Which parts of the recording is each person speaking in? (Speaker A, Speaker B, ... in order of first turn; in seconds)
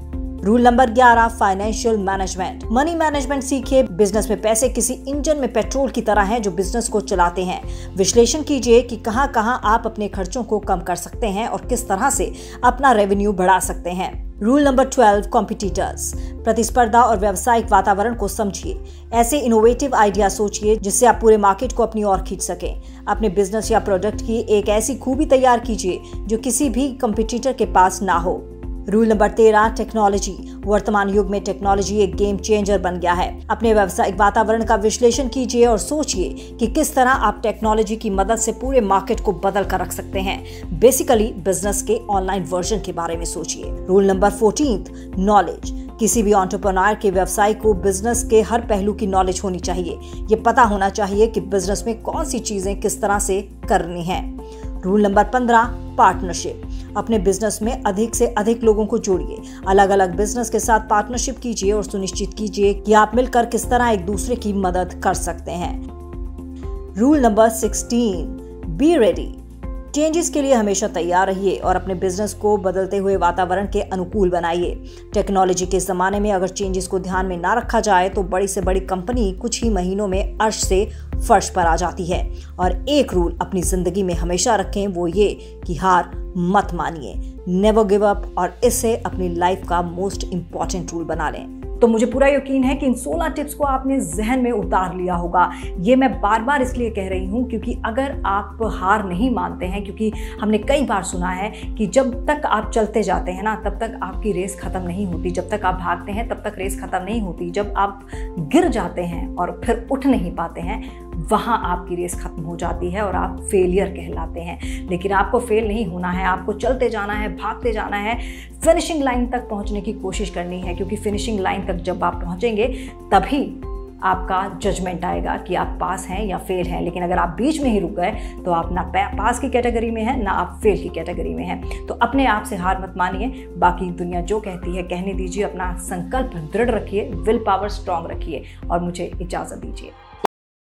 Speaker A: 0.4-65.8, 67.0-69.4, 69.9-139.9